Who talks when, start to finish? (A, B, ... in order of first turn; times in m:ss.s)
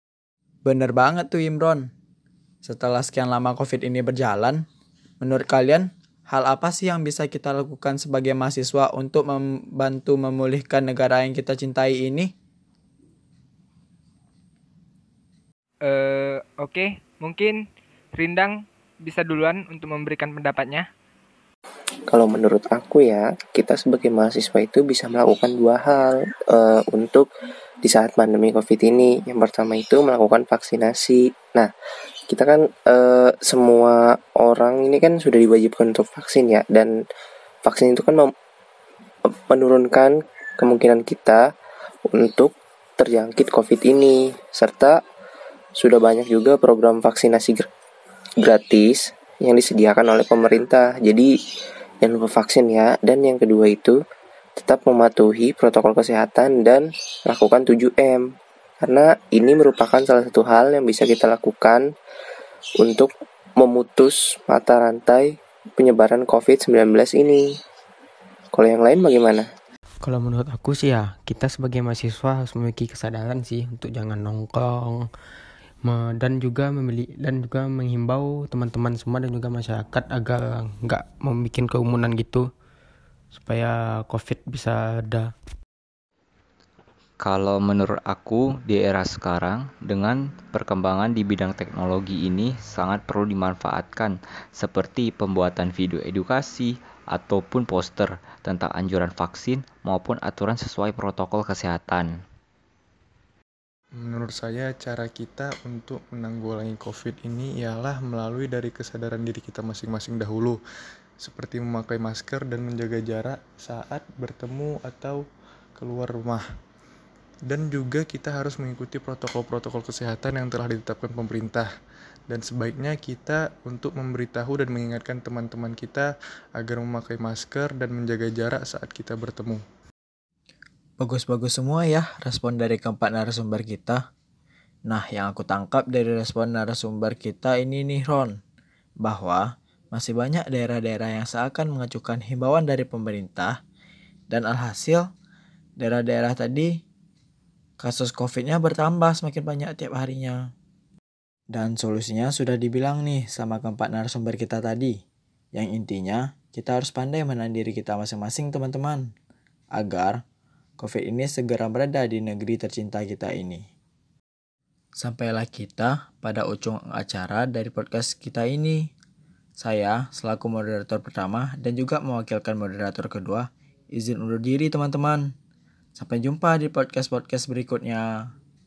0:00.6-0:01.9 A
0:02.6-0:04.6 A
0:05.2-0:12.3 A
0:15.9-0:17.6 B
0:18.2-0:18.5 B
0:19.0-0:20.9 B
0:22.1-0:27.3 C
0:27.8-0:31.7 C
0:32.3-0:36.9 C
0:37.6-0:38.3 C
0:39.5-0:41.4 C
0:42.1-0:45.0 C
0:45.8-0:47.6 C
0:48.4-0:51.3 C
0:52.0-0:54.0 C
0:54.6-0:58.2 C
0:58.8-1:01.8 C
1:02.8-1:07.5 C
1:08.5-1:09.5 C
1:10.1-1:14.6 D
1:16.4-1:22.4 D
1:23.4-1:25.3 D
1:27.2-1:42.1 E
1:44.0-1:50.6 F
1:51.2-1:55.2 F
1:55.8-1:56.4 F
1:57.5-2:01.7 F
2:02.3-2:09.6 F
2:11.0-2:14.0 A
2:14.9-2:18.4 A
2:19.0-2:23.6 A
2:24.3-2:25.1 A
2:25.8-2:26.8 A
2:27.8-2:30.5 A
2:31.5-2:35.0 A
2:35.5-2:39.1 A
2:39.8-2:40.2 A
2:40.8-2:43.6 A
2:45.0-2:48.9 A
2:49.6-2:55.3 A
2:56.0-2:58.3 A